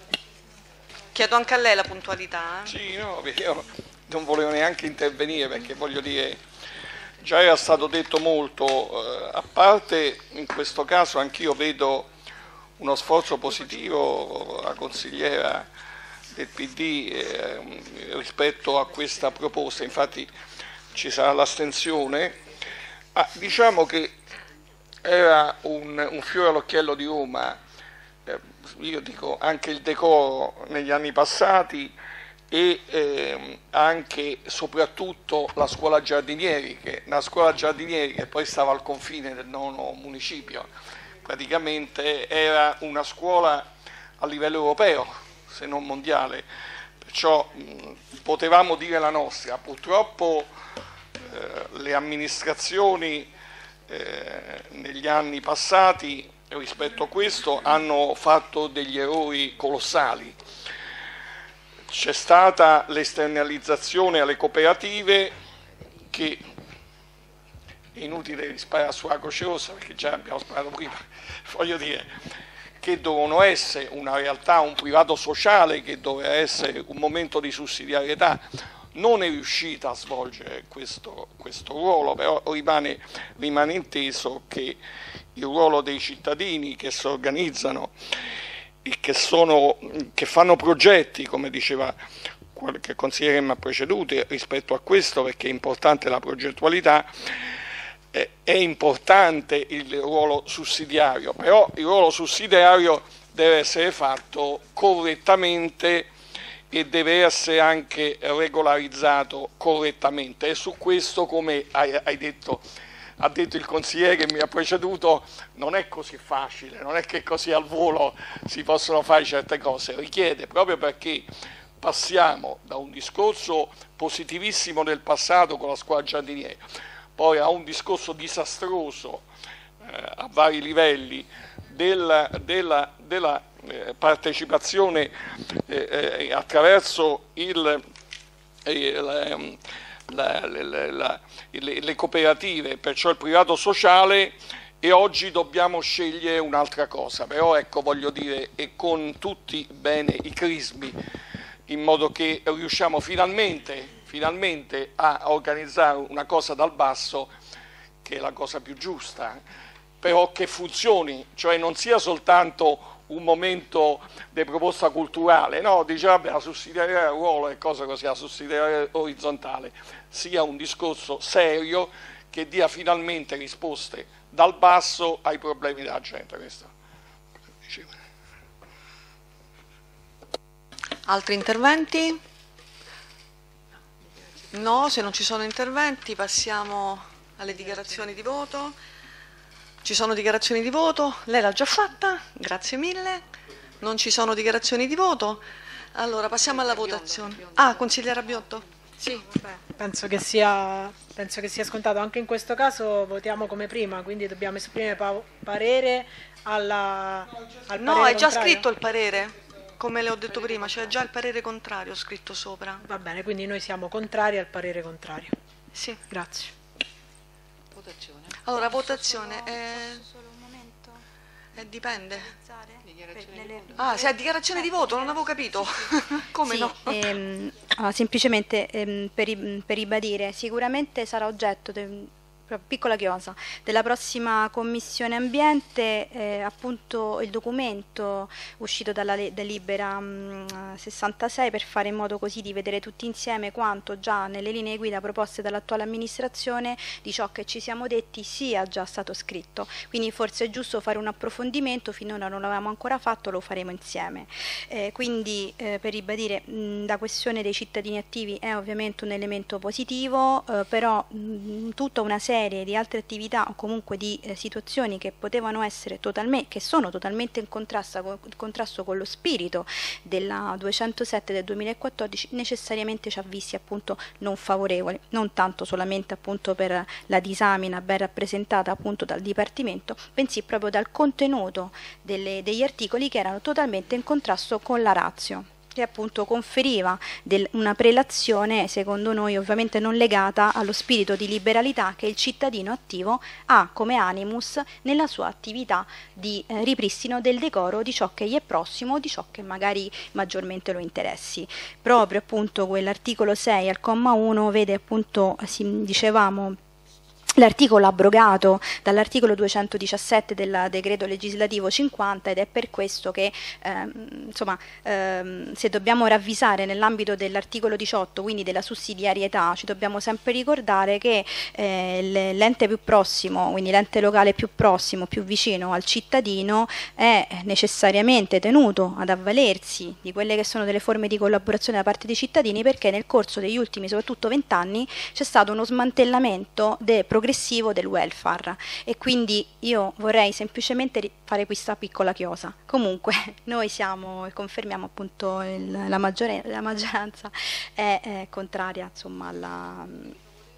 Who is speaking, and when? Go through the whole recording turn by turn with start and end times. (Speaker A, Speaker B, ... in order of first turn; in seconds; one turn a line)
Speaker A: 1.1-2.7
Speaker B: 2.6-6.4
Speaker B: 7.2-12.1
Speaker B: 12.8-15.7
Speaker B: 16.3-20.3
Speaker B: 20.9-22.4
Speaker B: 23.1-24.1
Speaker B: 25.0-27.6
Speaker B: 28.2-31.9
Speaker B: 32.5-40.7
Speaker B: 41.2-43.7
Speaker B: 44.2-46.5
Speaker B: 47.0-50.5
Speaker B: 51.2-53.3
Speaker B: 53.9-60.4
Speaker B: 61.9-65.3
Speaker B: 66.1-66.4
Speaker B: 67.9-72.1
Speaker B: 72.8-78.4
Speaker B: 78.9-84.8
Speaker B: 85.3-87.9
Speaker B: 88.8-92.0
Speaker B: 92.5-97.1
Speaker B: 98.1-106.1
Speaker B: 106.7-112.6
Speaker B: 113.2-121.3
Speaker B: 121.8-126.6
Speaker B: 127.2-129.2
Speaker B: 129.8-135.1
Speaker B: 135.7-137.8
Speaker B: 138.6-150.9
Speaker B: 151.7-157.3
Speaker B: 158.0-159.4
Speaker B: 160.0-176.7
Speaker A: 181.1-182.2
Speaker A: 184.5-188.8
Speaker A: 189.8-193.2
Speaker A: 193.8-195.4
Speaker A: 195.9-199.2
Speaker C: 199.4-208.6
Speaker A: 207.8-212.8
Speaker C: 212.8-215.3
Speaker A: 215.7-216.0
Speaker C: 216.1-216.5
Speaker A: 218.4-220.0
Speaker D: 218.5-221.0
Speaker A: 221.6-222.3
Speaker D: 222.2-225.2
Speaker A: 223.7-227.1
Speaker D: 226.4-306.6
Speaker D: 307.4-350.1